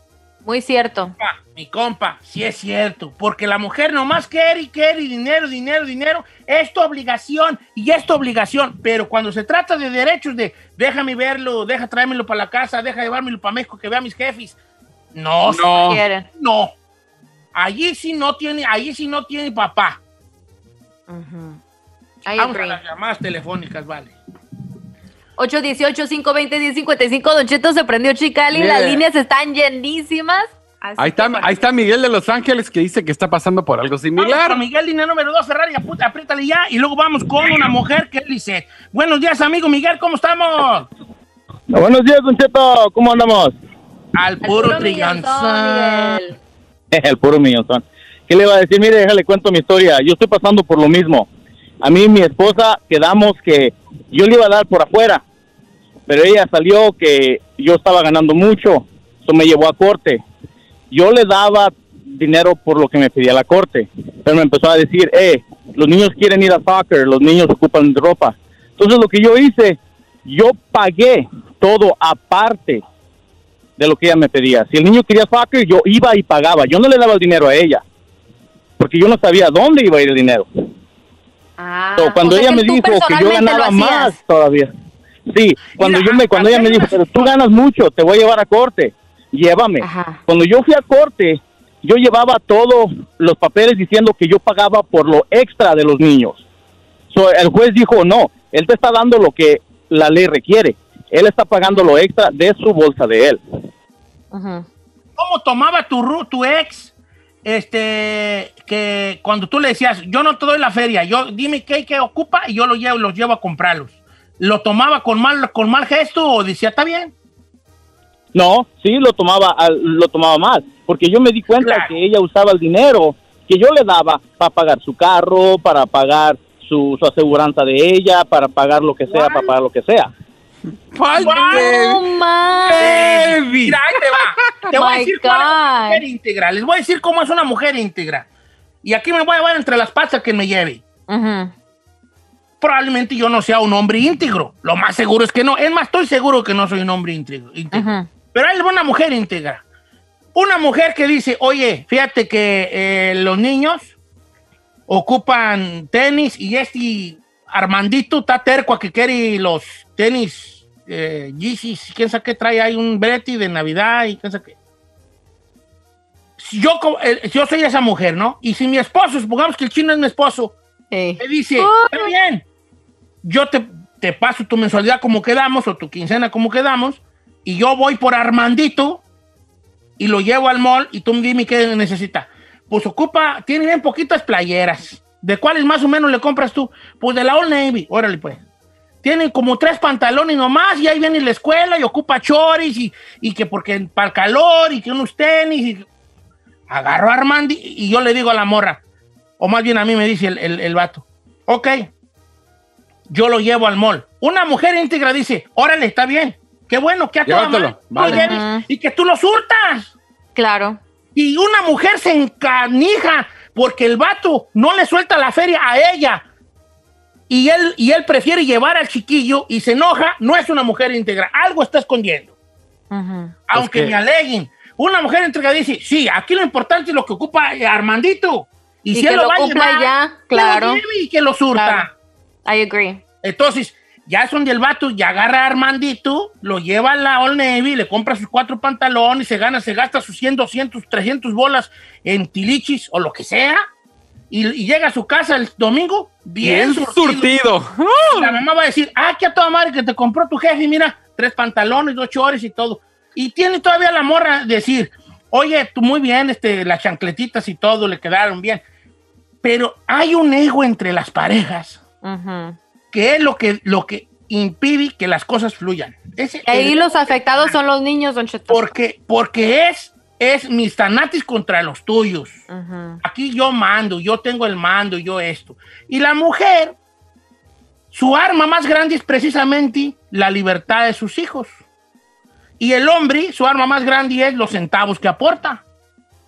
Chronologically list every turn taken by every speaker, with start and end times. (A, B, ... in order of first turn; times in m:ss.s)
0:00.4-0:01.1 A
0:01.2-0:14.6 B
0:15.1-0:15.7 B
0:15.4-0:16.0 C
0:15.7-0:16.3 A
0:16.4-0:16.7 B
0:17.5-0:20.0 B
0:21.1-0:21.6 A
0:22.2-0:22.8 A
0:22.4-0:24.1 B
0:25.4-0:31.5 A
0:28.5-0:29.0 C
0:31.0-0:34.6 C
0:34.2-0:40.8 B
0:41.7-0:43.5 D
0:44.2-0:46.2 B
0:44.4-0:46.4 A
0:46.9-0:51.3 D
0:51.8-0:55.2 D
0:56.1-1:00.2 D
1:00.9-1:12.8 D
1:13.8-1:17.8 D
1:18.8-1:20.5 D
1:21.6-1:24.2 A
1:22.0-1:24.7 D
1:25.3-1:36.4 D
1:25.7-1:27.3 B
1:29.8-1:30.2 A
1:37.1-1:43.4 D
1:44.3-1:44.6 A
1:45.2-1:46.9 B
1:47.4-1:57.1 B
1:58.3-2:10.1 D
2:01.6-2:01.9 B
2:09.1-2:09.5 B
2:10.9-2:12.0 C
2:11.2-2:12.9 A
2:11.2-2:11.7 B
2:12.7-2:13.8 C
2:12.8-2:18.2 B
2:14.7-2:16.0 A
2:18.8-2:20.8 B
2:21.1-2:21.5 A
2:22.6-2:29.6 B
2:27.7-2:28.1 A
2:30.3-2:33.9 B
2:34.9-2:44.5 B
2:46.4-2:50.5 B
2:50.9-2:52.1 A
2:51.2-2:52.4 B
2:53.2-2:59.0 B
3:00.0-3:08.4 B
3:09.0-3:15.8 B
3:16.7-3:18.8 B
3:19.4-3:21.9 B
3:23.1-3:29.9 B
3:27.2-3:28.3 C
3:28.1-3:28.6 A
3:30.4-3:30.8 A
3:31.1-3:36.2 B
3:37.3-3:42.3 B
3:42.9-3:43.4 A
3:43.5-3:51.9 B
3:43.5-3:43.9 C
3:48.9-3:50.8 A
3:51.5-3:51.8 A
3:52.4-3:53.0 A
3:53.2-4:03.6 B
4:04.3-4:07.3 B
4:06.4-4:08.4 C
4:08.1-4:18.6 B
4:19.4-4:21.8 B
4:22.0-4:22.6 A
4:22.9-4:27.6 B
4:26.5-4:28.6 A
4:28.5-4:32.4 B
4:32.5-4:33.0 A
4:33.0-4:36.7 B
4:37.9-4:41.5 B
4:42.6-4:45.6 B